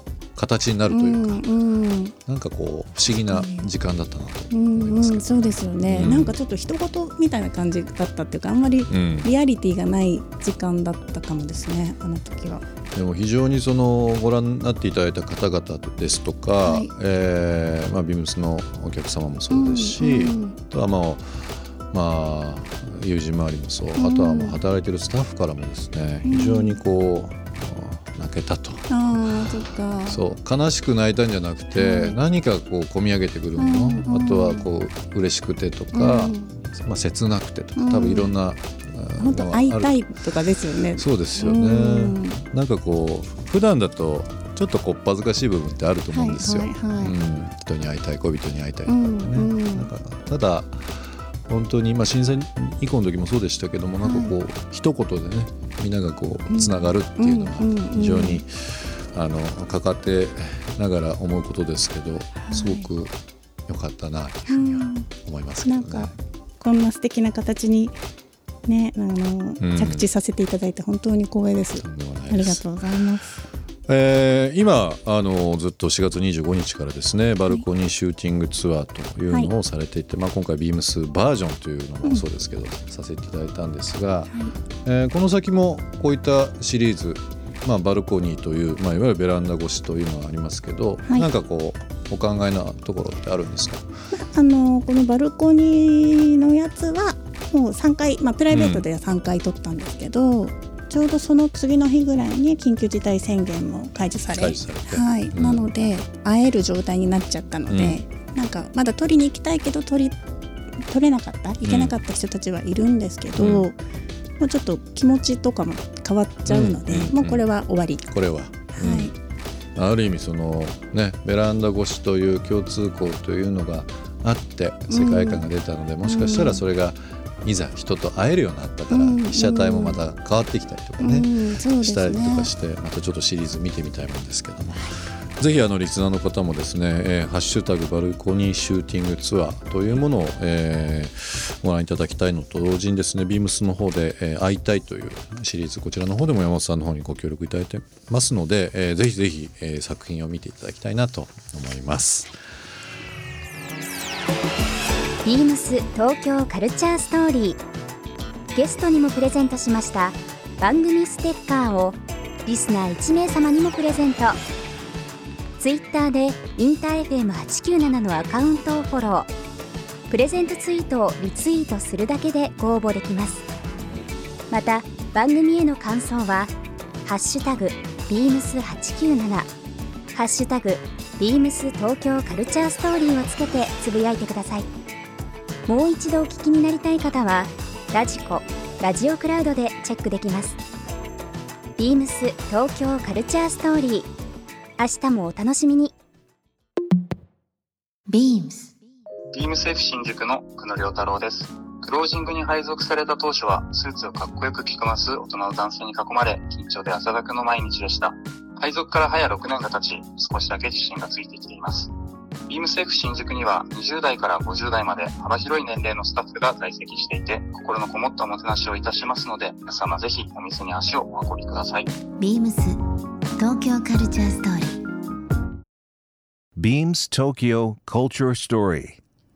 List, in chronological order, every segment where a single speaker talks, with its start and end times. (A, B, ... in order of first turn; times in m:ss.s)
0:00.4-0:01.4 A
0:00.9-0:02.1 B
0:02.2-0:06.4 A
0:03.3-0:03.7 B
0:04.5-0:12.6 B
0:08.9-0:09.3 A
0:12.9-0:29.2 A
0:16.6-0:16.9 B
0:19.5-0:20.6 B
0:24.0-0:24.6 B
0:26.2-0:26.8 B
0:28.9-0:30.2 B
0:30.1-0:39.9 A
0:31.7-0:32.2 B
0:33.6-0:34.6 B
0:35.9-0:36.5 B
0:37.8-0:38.3 B
0:39.2-0:42.4 B
0:41.0-1:03.2 A
0:46.1-0:47.2 B
0:48.8-0:49.9 B
0:54.0-0:54.3 B
0:56.5-0:58.4 B
1:02.4-1:02.9 B
1:03.7-1:06.2 A
1:04.5-1:05.1 B
1:05.6-1:08.0 B
1:08.6-1:13.4 B
1:09.6-1:10.0 A
1:11.8-1:12.6 A
1:13.9-1:24.3 A
1:24.8-1:33.8 A
1:34.1-1:50.2 B
1:38.5-1:38.8 A
1:44.3-1:45.7 A
1:47.7-1:48.0 A
1:50.9-1:53.8 B
1:51.6-1:51.9 A
1:53.4-1:53.6 A
1:54.4-1:58.0 B
1:56.5-1:57.4 A
1:58.1-1:59.1 A
1:58.7-1:59.1 B
1:59.8-2:11.3 A
2:04.9-2:05.4 B
2:06.0-2:06.6 B
2:08.9-2:10.0 B
2:11.0-2:12.5 B
2:11.8-2:32.3 A
2:35.2-2:37.6 C
2:38.5-2:44.4 C
2:45.6-2:49.3 C
2:50.1-2:53.4 C
2:54.5-2:56.5 C
2:57.0-2:59.5 C
3:00.1-3:04.7 C
3:05.6-3:10.6 C
3:11.8-3:14.1 C
3:14.8-3:15.9 C
3:18.1-3:18.7 D
3:19.3-3:31.9 E
3:32.5-3:41.9 E
3:42.2-3:42.8 D
3:43.4-3:44.8 D
3:46.6-3:49.0 F